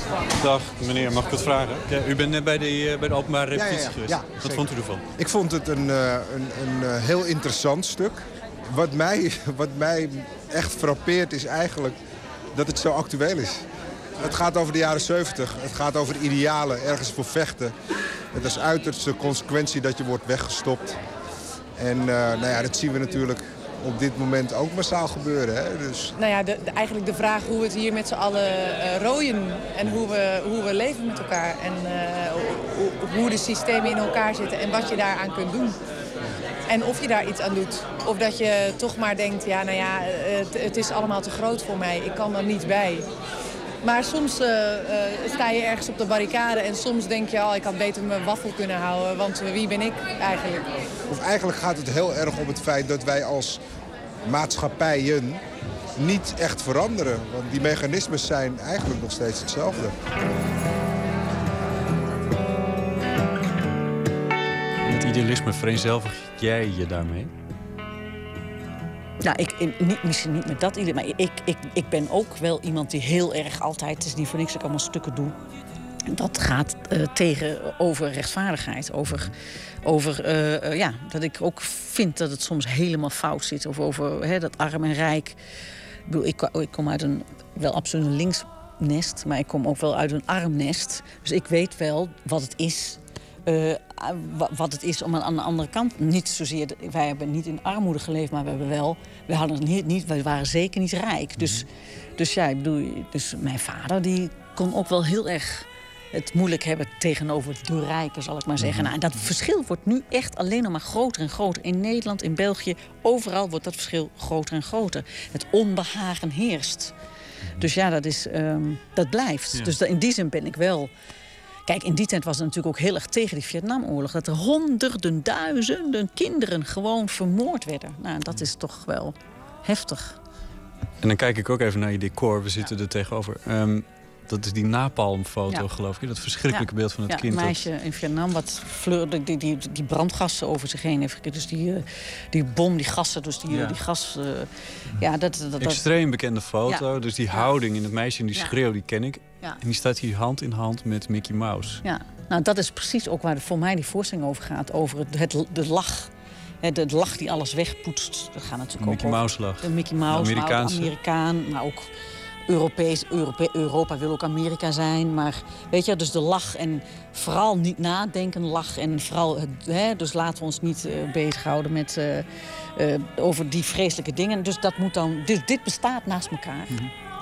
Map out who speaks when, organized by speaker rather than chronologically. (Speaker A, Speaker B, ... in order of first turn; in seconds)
Speaker A: 0.3-5.0, 64.8-67.3, 101.4-101.6, 108.6-108.9, 131.0-137.7, 145.6-151.8, 158.8-160.9
Speaker B: 3.5-11.9, 12.5-13.6, 14.2-17.7, 18.3-21.0, 21.8-26.1, 51.1-53.6, 54.3-55.4, 56.0-59.9
Speaker C: 26.1-35.8, 36.7-43.0, 43.8-50.7
Speaker D: 69.2-75.4, 76.1-85.4, 86.0-116.9, 117.6-120.9, 121.7-130.2, 136.4-145.8, 146.6-147.5, 151.8-156.1, 156.6-161.9, 162.5-176.9